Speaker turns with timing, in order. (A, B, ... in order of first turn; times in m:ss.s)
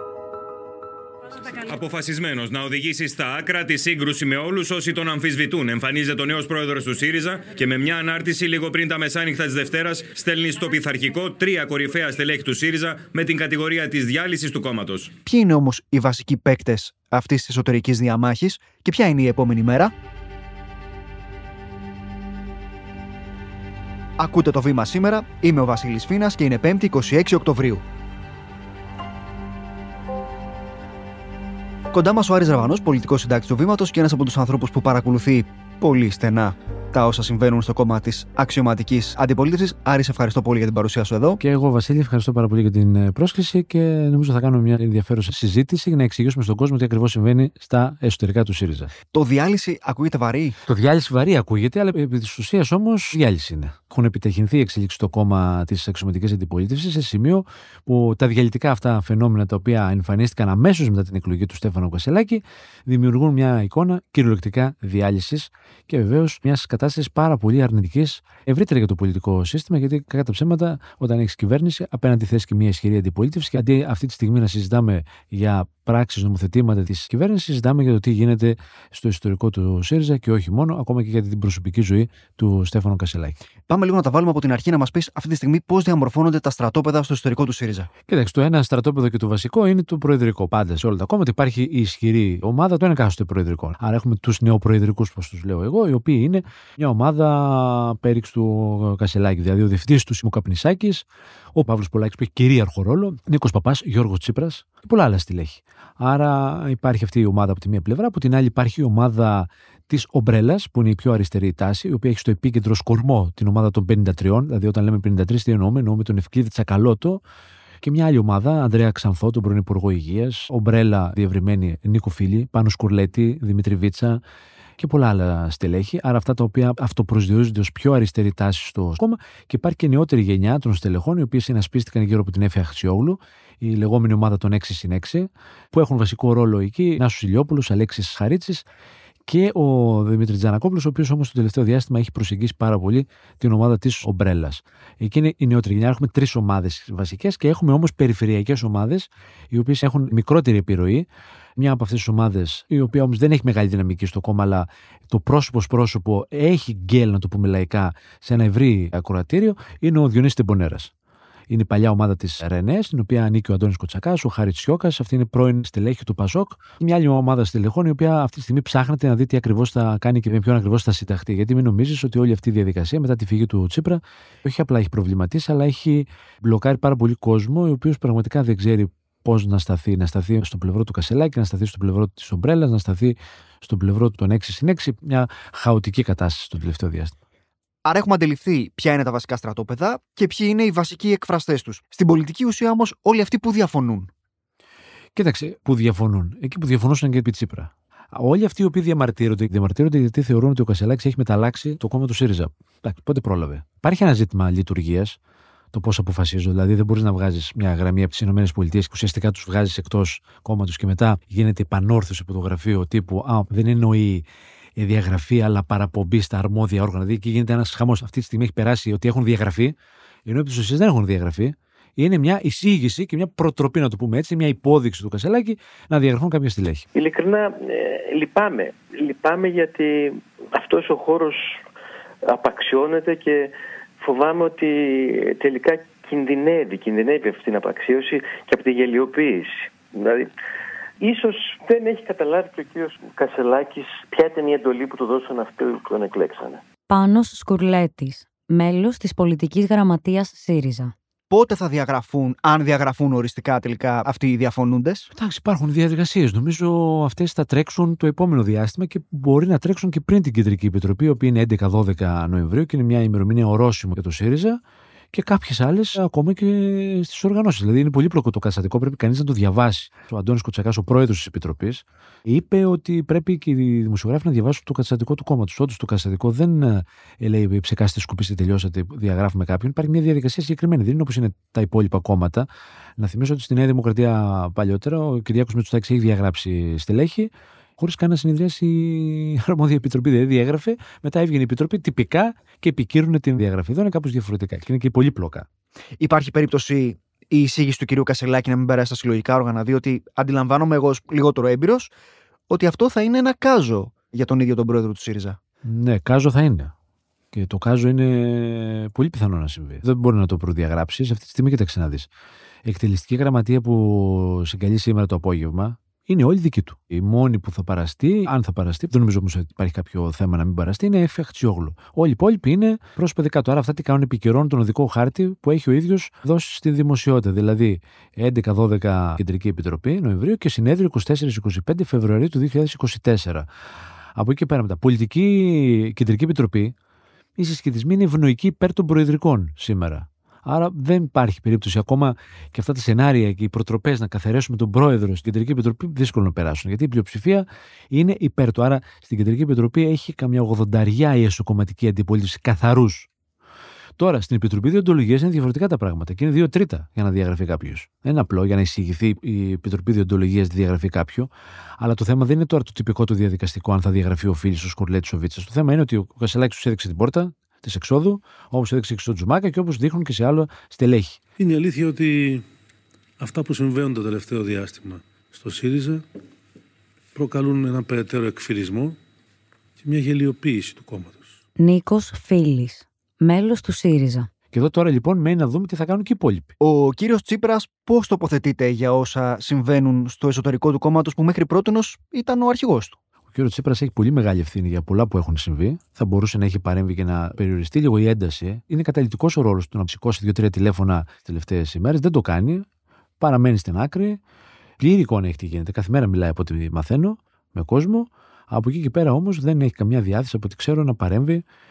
0:01.5-0:15.1 A
0:15.2-0:19.9 B
0:24.2-0:27.8 B
0:31.9-0:41.4 B
0:41.4-0:48.9 C
0:49.1-0:50.6 B
0:50.7-1:23.4 C
1:23.7-1:27.9 B
1:28.1-1:57.2 C
1:57.8-2:04.2 C
2:04.8-2:18.7 C
2:19.3-2:40.9 C
2:41.5-3:07.2 C
3:07.8-3:14.1 B
3:15.2-3:25.2 C
3:25.7-3:34.3 C
3:34.8-3:39.8 C
3:40.3-3:46.9 C
3:47.0-3:50.0 D
3:50.6-3:51.4 D
3:52.3-3:53.5 D
3:54.0-4:00.3 D
4:01.0-4:06.6 D
4:06.9-4:10.9 E
4:11.3-4:15.1 B
4:15.1-4:24.6 C
4:25.1-4:55.5 C
4:56.0-5:01.9 B
5:02.5-5:05.4 B
5:05.6-5:06.7 C
5:07.3-5:12.1 C
5:12.6-5:33.5 C
5:34.2-5:36.8 C
5:37.4-5:53.1 C
5:54.0-6:11.2 C
6:11.4-6:12.4 F
6:13.2-6:16.0 F
6:17.2-6:19.0 F
6:19.8-6:21.4 F
6:21.6-6:24.3 E
6:24.5-6:26.5 C
6:26.6-6:33.0 B
6:33.3-6:42.7 C
6:43.2-6:44.2 C
6:44.8-6:51.4 C